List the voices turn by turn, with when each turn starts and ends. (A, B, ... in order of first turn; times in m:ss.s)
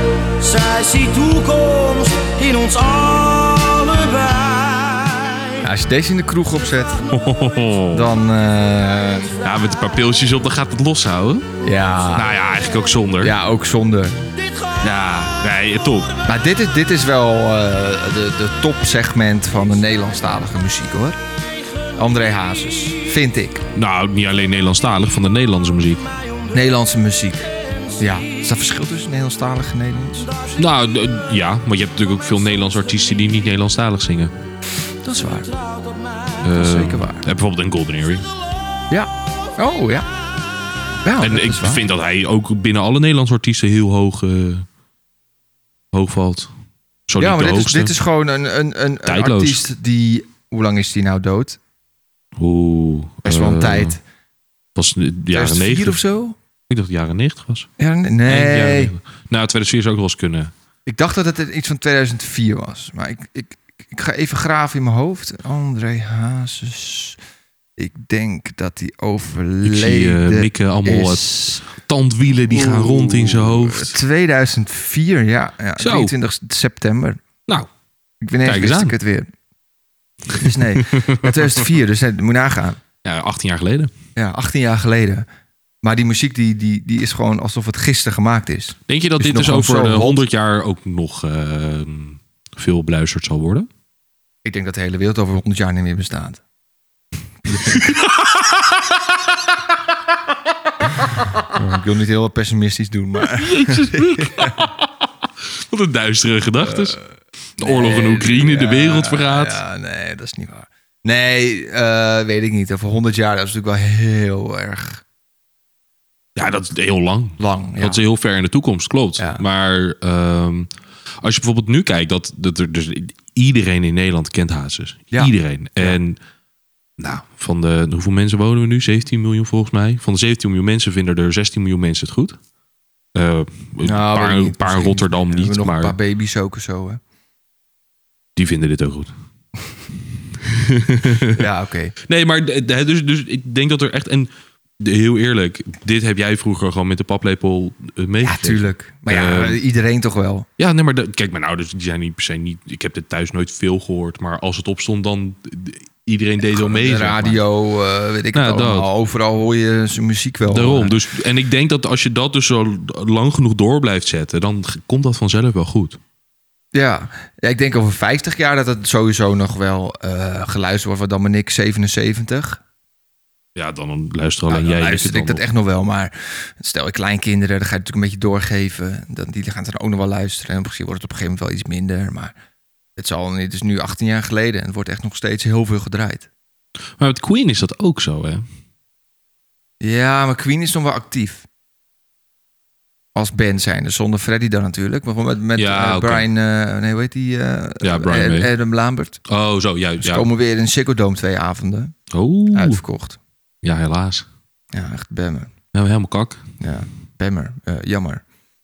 0:00.4-0:05.6 A
0:05.6-0:07.0 B
0:07.1-0:08.1 C
0:07.9-0:09.3 B
0:09.4-0:11.5 C
0:11.6-0:12.3 B
0:12.1-0:13.4 C
0:13.2-0:14.2 B
0:14.8-0:16.1 C
0:16.3-0:21.2 B
0:22.0-0:23.7 B
0:23.7-0:26.1 C
0:26.5-0:30.6 B
0:30.6-0:34.3 C
0:35.0-0:35.6 B
0:36.4-0:38.3 C
0:36.5-0:37.3 B
0:38.9-0:40.1 B
0:41.0-0:41.8 B
0:41.2-0:44.7 C
0:45.9-0:46.5 C
0:47.1-0:48.0 C
0:47.2-0:51.6 B
0:49.1-0:49.6 C
0:52.4-0:54.0 C
0:53.2-0:54.0 B
0:54.8-0:56.0 C
0:55.3-0:56.4 B
0:56.7-0:57.7 C
0:57.8-0:58.9 B
0:58.2-1:00.5 C
1:00.9-1:07.2 B
1:07.8-1:11.6 B
1:09.6-1:14.0 C
1:12.5-1:17.2 B
1:15.8-1:16.2 C
1:18.2-1:19.3 B
1:18.4-1:19.0 C
1:20.3-1:22.8 B
1:20.4-1:21.3 C
1:23.0-1:23.9 C
1:24.2-1:25.3 B
1:25.8-1:30.2 B
1:28.9-1:33.7 C
1:34.4-1:36.4 B
1:37.5-1:37.8 B
1:37.5-1:39.0 C
1:41.4-1:44.6 B
1:43.3-1:44.9 C
1:45.5-1:47.0 C
1:46.6-1:47.0 B
1:47.6-1:49.6 C
1:47.6-1:55.0 B
1:56.4-2:00.7 C
1:57.4-1:58.0 B
1:59.2-1:59.4 B
2:01.2-2:06.2 C
2:05.1-2:06.0 B
2:07.0-2:12.4 C
2:13.1-2:16.0 C
2:13.8-2:17.0 B
2:18.4-2:19.1 C
2:20.4-2:21.4 C
2:21.3-2:21.9 B
2:22.1-2:29.6 C
2:28.2-2:30.5 B
2:30.6-2:37.4 C
2:36.4-2:41.0 B
2:38.3-2:38.9 C
2:40.5-2:46.0 C
2:46.7-2:52.6 B
2:53.6-2:55.4 C
2:54.5-3:02.4 B
3:03.0-3:06.3 B
3:07.0-3:08.4 C
3:09.8-3:11.5 B
3:13.2-3:19.2 B
3:15.6-3:16.3 C
3:17.8-3:18.5 C
3:19.3-3:20.3 C
3:20.0-3:22.0 B
3:22.1-3:22.8 C
3:22.5-3:23.2 B
3:23.6-3:24.3 C
3:24.7-3:25.5 B
3:25.7-3:26.4 C
3:26.6-3:28.2 B